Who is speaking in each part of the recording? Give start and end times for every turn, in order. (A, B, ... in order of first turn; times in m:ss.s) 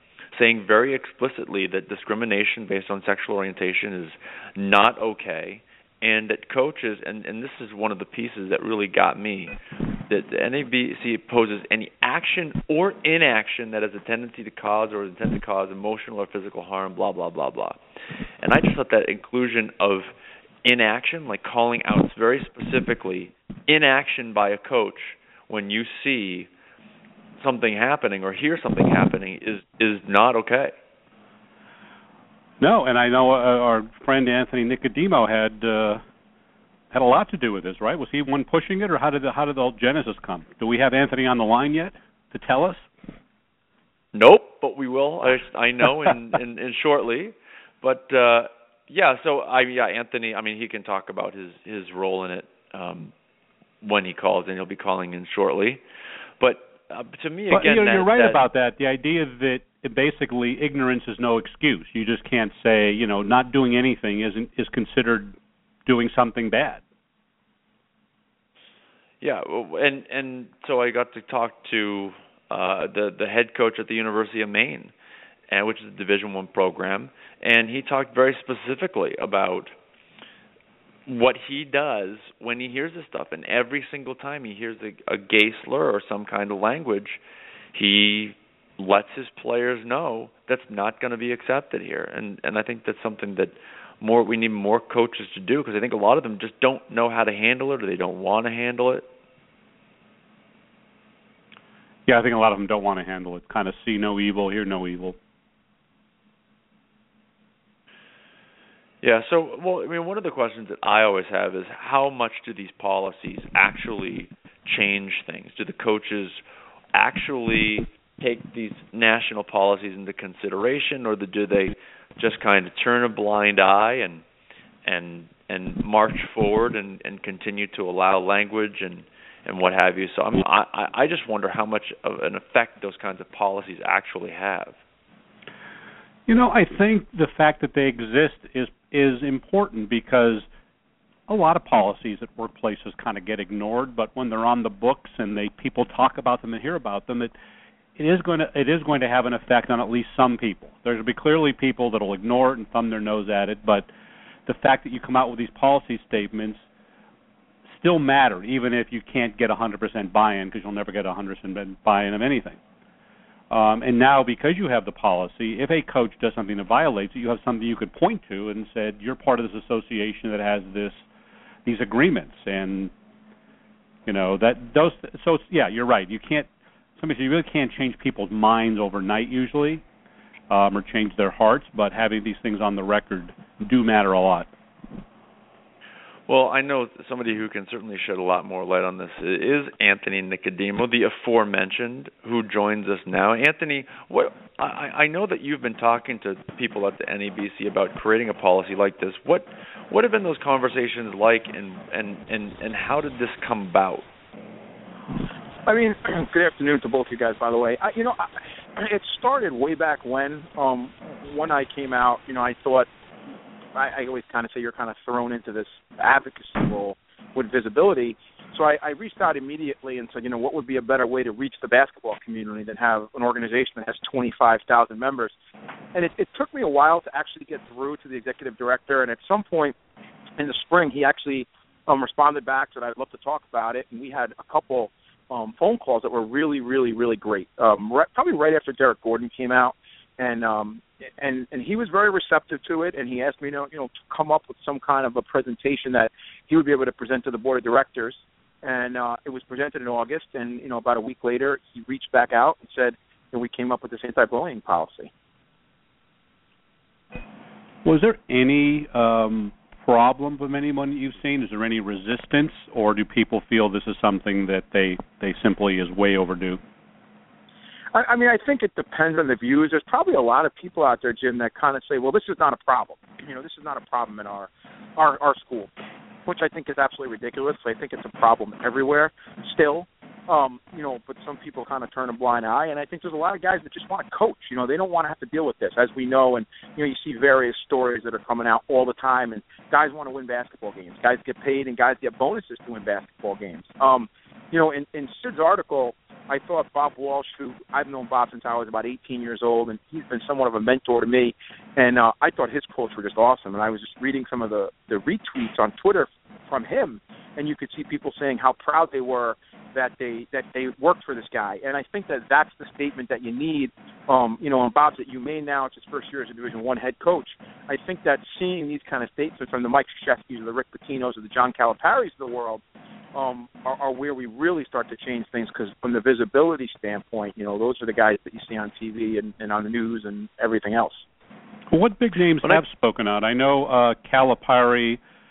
0:00.3-0:09.5 A
0:10.1-0:17.8 A
0:18.4-0:20.1 A
0:20.6-0:26.5 A
0:27.4-0:30.7 A
0:32.6-0:36.0 B
0:36.9-0:42.8 B
0:44.1-0:53.1 A
0:53.8-0:55.8 A
0:56.4-0:58.4 A
0:57.5-1:06.8 B
1:09.2-1:14.9 A
1:15.5-1:19.7 A
1:21.0-1:27.2 A
1:27.7-1:39.1 A
1:42.0-1:45.2 B
1:49.0-1:56.4 A
1:56.9-2:04.2 A
2:04.8-2:14.8 A
2:16.3-2:20.5 B
2:21.3-2:27.3 B
2:28.0-2:33.9 B
2:34.4-2:36.6 B
2:37.7-2:42.6 B
2:43.5-2:51.0 B
2:51.6-2:52.9 B
2:54.0-2:59.8 B
3:00.5-3:04.5 B
3:06.3-3:24.0 A
3:25.6-3:32.9 C
3:33.7-3:45.3 C
3:45.9-3:49.7 C
3:50.4-4:15.1 C
4:17.8-4:26.6 B
4:27.9-4:35.7 C
4:36.2-5:22.6 C
5:23.1-5:31.0 C
5:31.7-5:35.0 B